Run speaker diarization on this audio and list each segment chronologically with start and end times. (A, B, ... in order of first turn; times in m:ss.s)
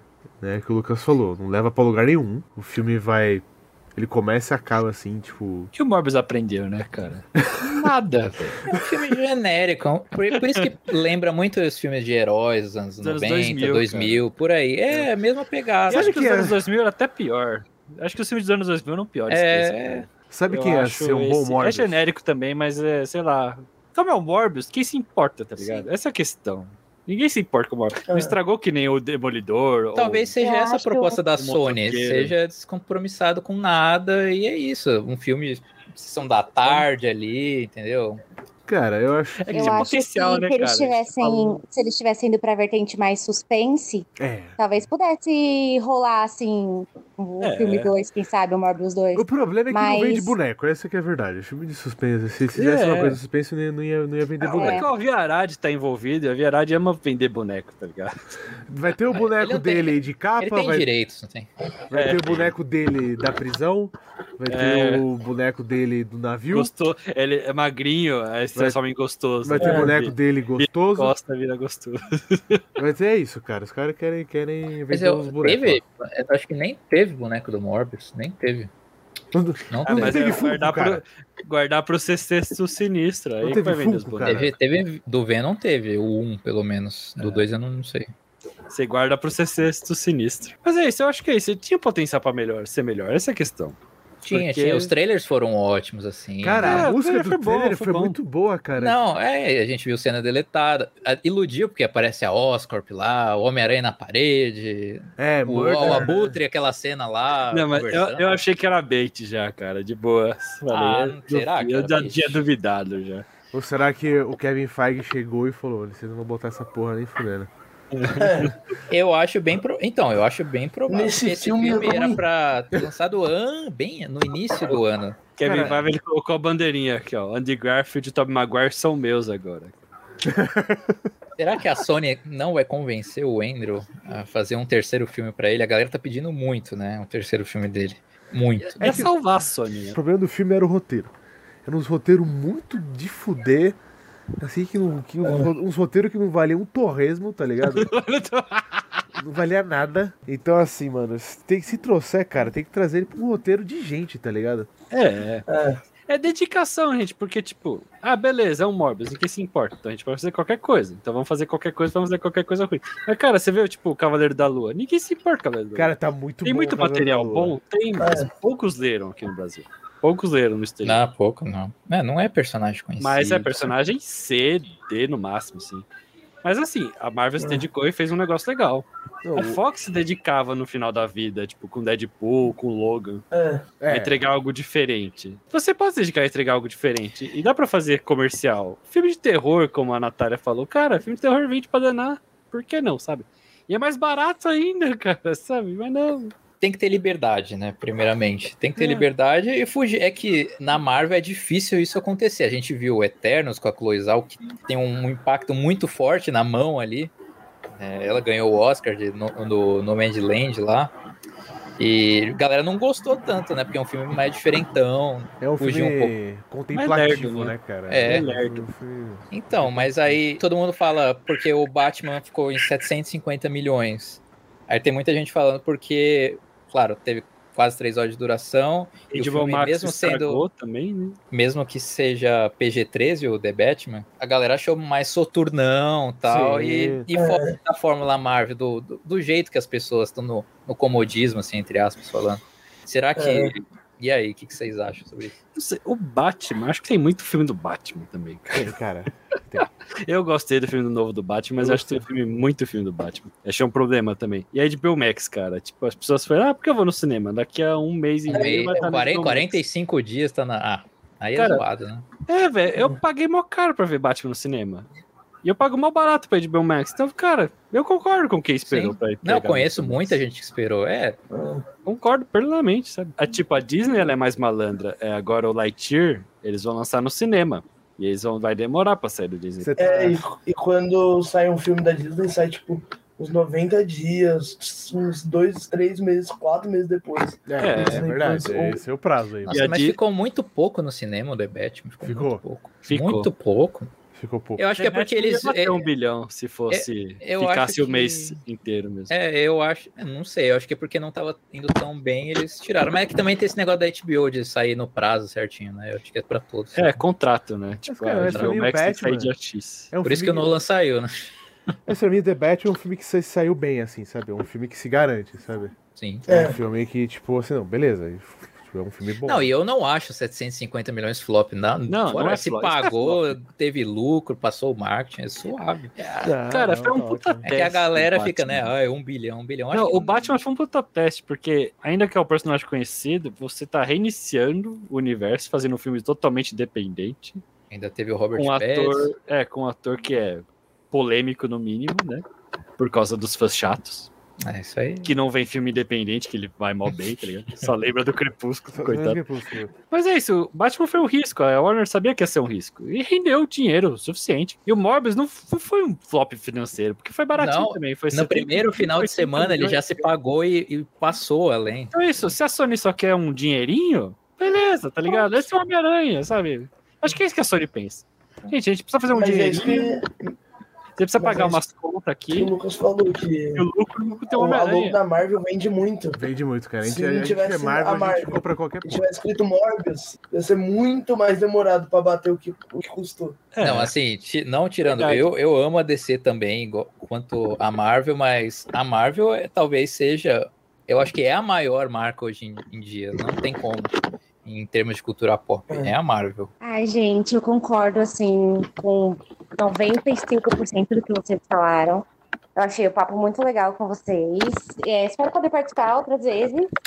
0:00.4-0:05.7 A
0:05.7-0:08.6 B
0:07.6-0:16.1 C
0:10.3-0:10.7 B
0:13.0-0:14.2 B
0:15.9-0:30.3 B
0:15.9-0:16.6 A
0:19.3-0:20.1 C
0:20.3-0:22.0 A
0:25.6-0:25.9 C
0:28.1-0:28.4 D
0:29.9-0:38.2 C
0:30.4-0:31.2 E
0:31.4-0:32.3 B
0:38.7-0:39.9 A
0:39.4-0:41.6 B
0:39.5-0:50.4 E
0:44.2-0:44.6 A
0:47.4-0:47.9 B
0:49.1-0:54.8 A
0:52.5-0:53.2 B
0:54.4-0:58.2 B
0:54.5-0:54.9 E
0:58.7-1:00.9 A
0:59.1-1:01.5 C
1:01.9-1:06.7 A
1:01.9-1:02.5 B
1:04.5-1:05.0 B
1:06.5-1:12.6 B
1:09.4-1:11.1 A
1:09.6-1:09.9 D
1:12.8-1:15.8 A
1:14.9-1:18.7 C
1:19.3-1:21.0 A
1:19.7-1:20.3 C
1:19.9-1:24.4 B
1:23.4-1:24.5 A
1:24.2-1:28.1 C
1:27.2-1:27.4 B
1:28.7-1:33.8 B
1:34.2-1:36.9 C
1:34.3-1:34.9 B
1:36.4-1:39.0 A
1:36.6-1:38.2 B
1:38.8-1:48.2 C
1:45.2-1:46.4 A
1:47.5-1:53.2 B
1:50.7-1:52.4 C
1:53.5-1:57.5 A
1:57.9-1:58.5 B
1:58.2-1:58.5 D
1:58.9-2:05.9 C
2:00.9-2:02.2 D
2:05.3-2:09.8 B
2:10.2-2:11.0 A
2:11.4-2:19.1 C
2:18.8-2:20.0 B
2:18.8-2:19.1 A
2:19.9-2:21.1 A
2:21.6-2:23.8 A
2:24.4-2:27.9 A
2:27.6-2:29.0 B
2:29.1-2:34.7 A
2:34.9-2:35.4 B
2:35.5-2:35.8 D
2:36.1-2:51.0 B
2:45.7-2:47.6 A
2:48.0-2:48.3 D
2:50.8-2:53.7 C
2:53.0-2:55.8 B
2:56.4-3:03.2 B
2:57.4-2:57.6 D
2:59.2-2:59.6 A
3:03.3-3:03.6 D
3:03.8-3:04.2 A
3:03.9-3:16.3 B
3:16.6-3:27.1 C
3:18.8-3:19.0 B
3:27.8-3:30.9 C
3:31.8-3:36.1 C
3:35.4-3:40.2 A
3:36.7-3:38.6 B
3:37.9-3:38.2 C
3:39.3-3:50.4 C
3:49.1-3:51.2 B
3:51.3-4:05.3 C
3:56.2-3:57.0 A
3:57.1-3:57.6 D
4:03.2-4:03.5 D
4:05.5-4:08.7 B
4:08.5-4:09.7 A
4:10.0-4:19.6 B
4:11.6-4:12.0 A
4:18.3-4:22.1 C
4:18.3-4:18.9 D
4:21.4-4:21.6 B
4:22.2-4:24.9 B
4:25.4-4:30.2 B
4:28.7-4:31.2 C
4:31.3-4:31.6 D
4:31.8-4:39.7 B
4:39.6-4:40.2 A
4:39.8-4:48.8 D
4:47.5-4:49.6 A
4:47.6-4:48.0 B
4:49.4-4:53.9 C
4:49.5-4:50.0 B
4:52.0-4:52.4 A
4:52.8-4:53.3 B
4:54.1-4:54.6 A
4:54.6-4:55.8 C
4:54.8-4:59.1 B
4:56.7-4:58.4 C
4:59.1-5:07.0 C
5:06.7-5:09.9 B
5:07.9-5:09.3 A
5:08.2-5:08.6 C
5:09.9-5:10.6 A
5:10.0-5:11.3 C
5:11.9-5:15.8 A
5:15.9-5:16.2 C
5:16.3-5:16.6 D
5:16.3-5:19.5 A
5:19.2-5:25.9 C
5:21.9-5:23.4 B
5:26.0-5:28.7 B
5:26.2-5:27.4 A
5:27.4-5:30.3 C
5:29.7-5:37.4 B
5:37.7-5:39.1 C
5:38.4-5:42.2 B
5:42.8-5:44.1 B
5:44.4-5:45.2 C
5:45.0-5:49.2 B
5:48.7-5:49.7 A
5:49.9-6:00.1 B
5:57.3-6:01.9 C
6:01.9-6:10.0 B
6:09.1-6:10.3 D
6:11.0-6:12.5 B
6:11.2-6:11.6 D
6:12.3-6:13.6 D
6:13.6-6:15.0 B
6:14.3-6:16.2 D
6:16.1-6:19.1 A
6:16.8-6:23.4 D
6:23.5-6:23.9 B
6:23.6-6:36.5 C
6:24.9-6:25.3 B
6:35.7-6:36.0 D
6:36.6-6:46.7 E